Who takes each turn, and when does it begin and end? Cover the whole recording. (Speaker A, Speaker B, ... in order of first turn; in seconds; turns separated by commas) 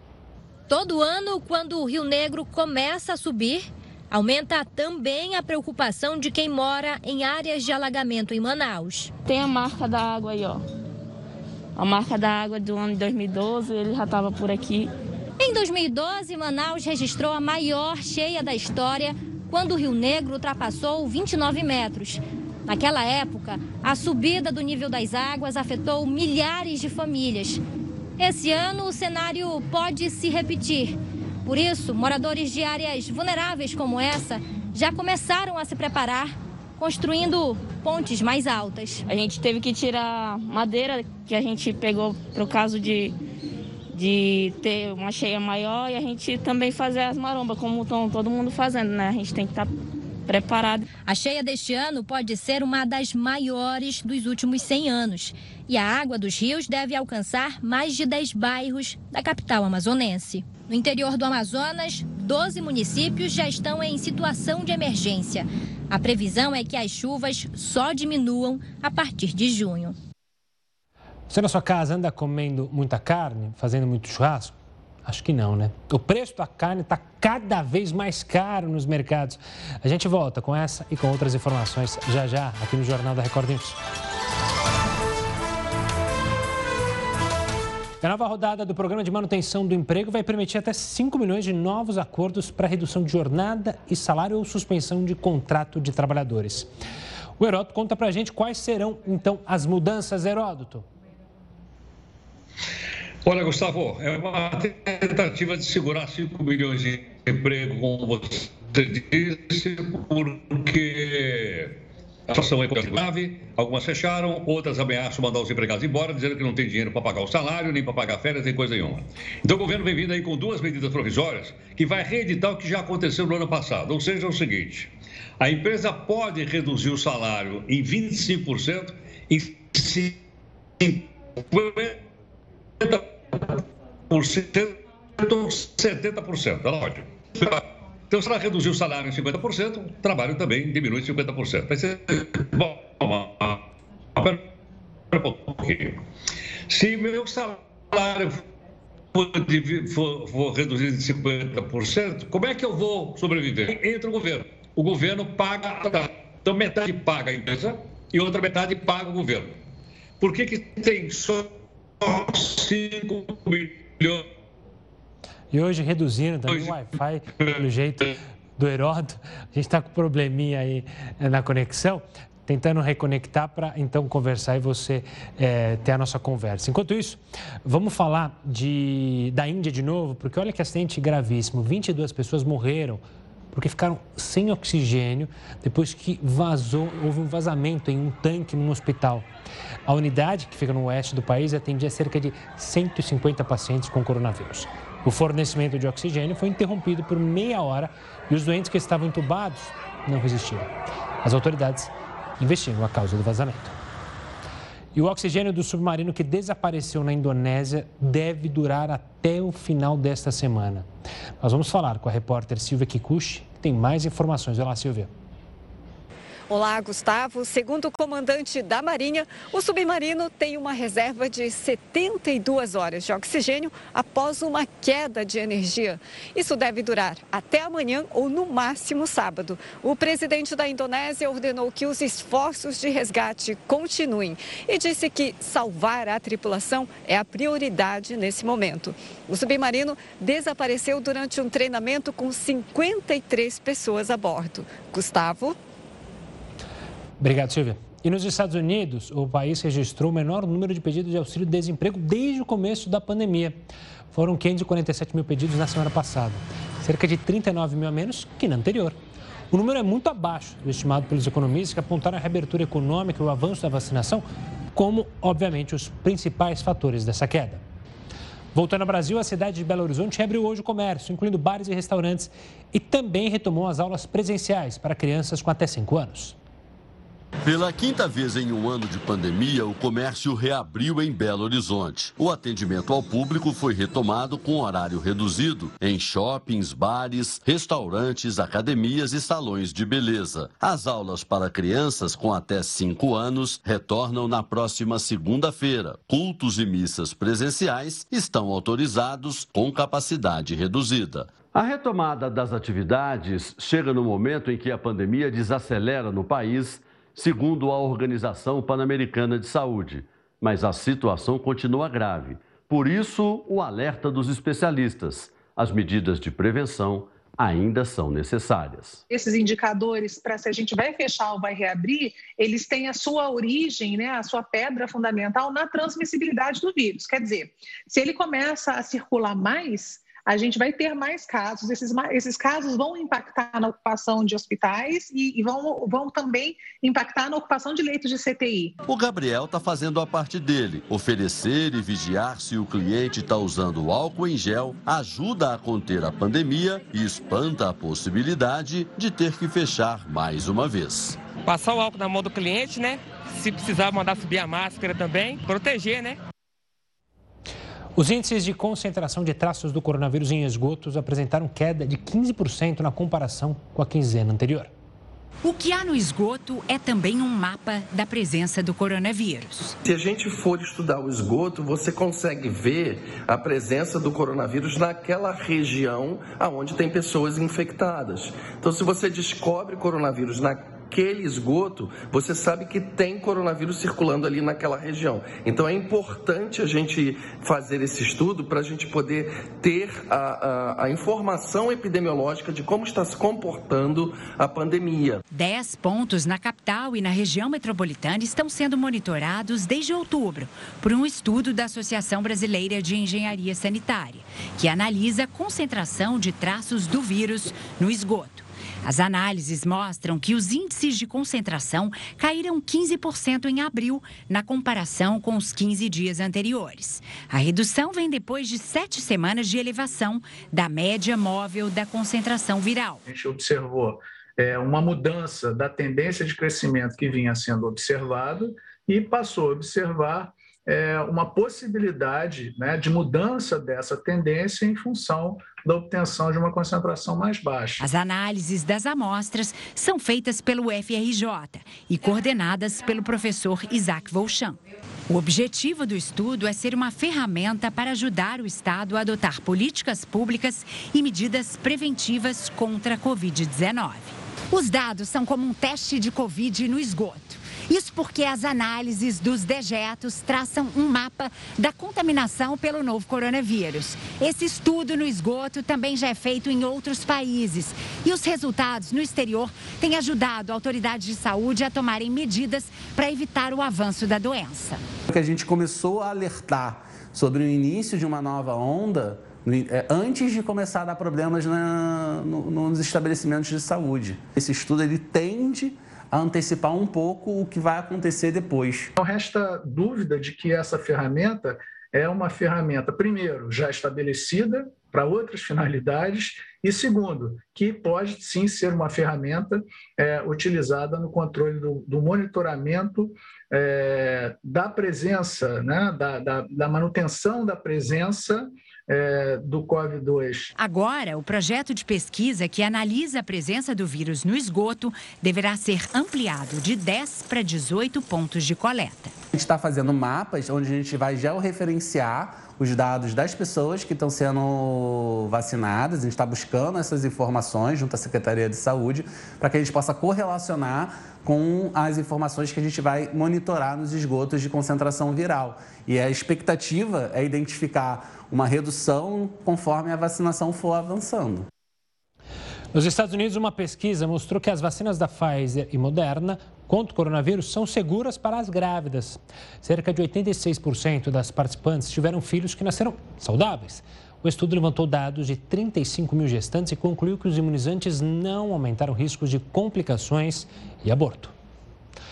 Speaker A: 0.7-9.1, Speaker B: 9.2-10.6, Speaker B: 11.8-14.9, Speaker A: 15.4-27.6, Speaker A: 28.2-39.0, Speaker B: 39.1-43.2, Speaker B: 43.9-49.7, Speaker B: 50.3-50.9, Speaker A: 51.1-70.0, Speaker C: 71.3-83.8, Speaker C: 88.0-96.7, Speaker C: 97.4-100.8, Speaker D: 103.2-130.2, Speaker D: 130.8-132.0, Speaker D: 132.8-143.6, Speaker D: 144.2-144.4, Speaker D: 145.1-146.0, Speaker D: 146.7-148.4, Speaker D: 149.1-159.6, Speaker D: 160.2-164.3, Speaker C: 165.5-183.0, Speaker C: 183.5-189.3, Speaker C: 189.9-203.8, Speaker C: 204.9-210.9, Speaker C: 211.4-215.1, Speaker E: 216.5-245.5, Speaker C: 247.2-253.6, Speaker C: 254.1-259.0, Speaker C: 259.5-264.2, Speaker C: 264.8-267.6, Speaker C: 268.5-276.4, Speaker F: 277.4-319.0, Speaker G: 319.1-338.7, Speaker F: 338.9-351.2, Speaker H: 351.5-356.2, Speaker C: 358.0-364.7, Speaker I: 365.4-369.8, Speaker J: 369.9-395.2, Speaker I: 395.3-423.0, Speaker K: 423.1-437.8, Speaker I: 437.8-444.6, Speaker I: 445.1-474.8, Speaker L: 475.1-488.9, Speaker K: 489.0-510.5, Speaker I: 510.6-519.1, Speaker L: 519.3-541.5, Speaker C: 542.7-561.3